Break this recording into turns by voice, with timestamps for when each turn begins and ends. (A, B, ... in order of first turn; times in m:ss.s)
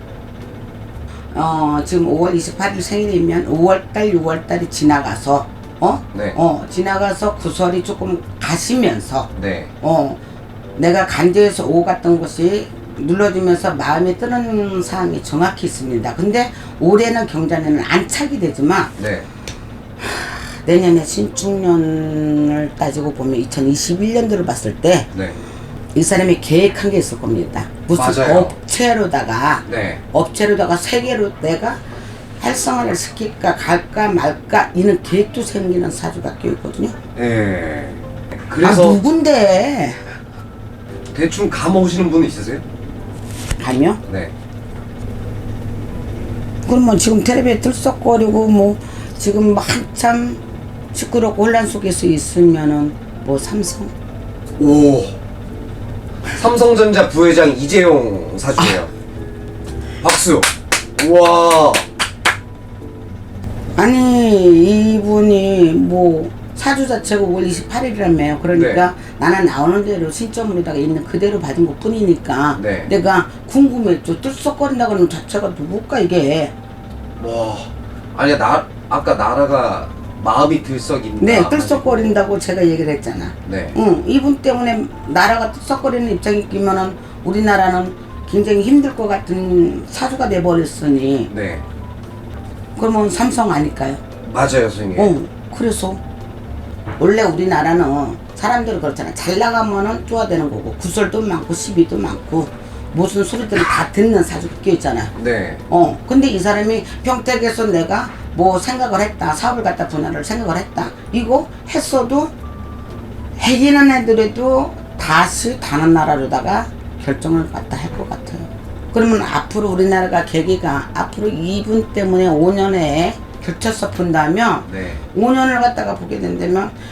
0:01.3-0:10.2 A
0:09.4-0:09.7 B
0:10.8-0:18.9 A
0:19.0-0:19.3 B
0:20.0-0:25.1 A
0:25.9-0:31.8 A
0:27.9-0:28.5 B
0:29.7-0:30.0 B
0:32.4-0:36.9 A
0:37.1-0:39.0 B
0:38.6-0:40.1 A
0:41.1-0:42.6 B
0:43.6-0:44.0 A
0:44.1-0:44.3 B
0:46.7-0:50.4 A
0:50.9-0:53.9 A
0:54.6-0:55.2 B
0:56.3-0:58.9 B
1:00.0-1:01.8 B
1:03.8-1:16.5 A
1:08.5-1:08.8 B
1:12.6-1:12.9 B
1:17.2-1:22.2 B
1:21.2-1:31.3 A
1:23.4-1:23.8 B
1:31.3-1:31.6 B
1:32.8-1:34.0 A
1:34.2-1:35.1 B
1:34.9-1:36.0 A
1:37.0-1:45.1 A
1:45.2-1:45.6 B
1:45.7-1:52.3 A
1:53.4-2:06.7 A
2:04.7-2:05.0 B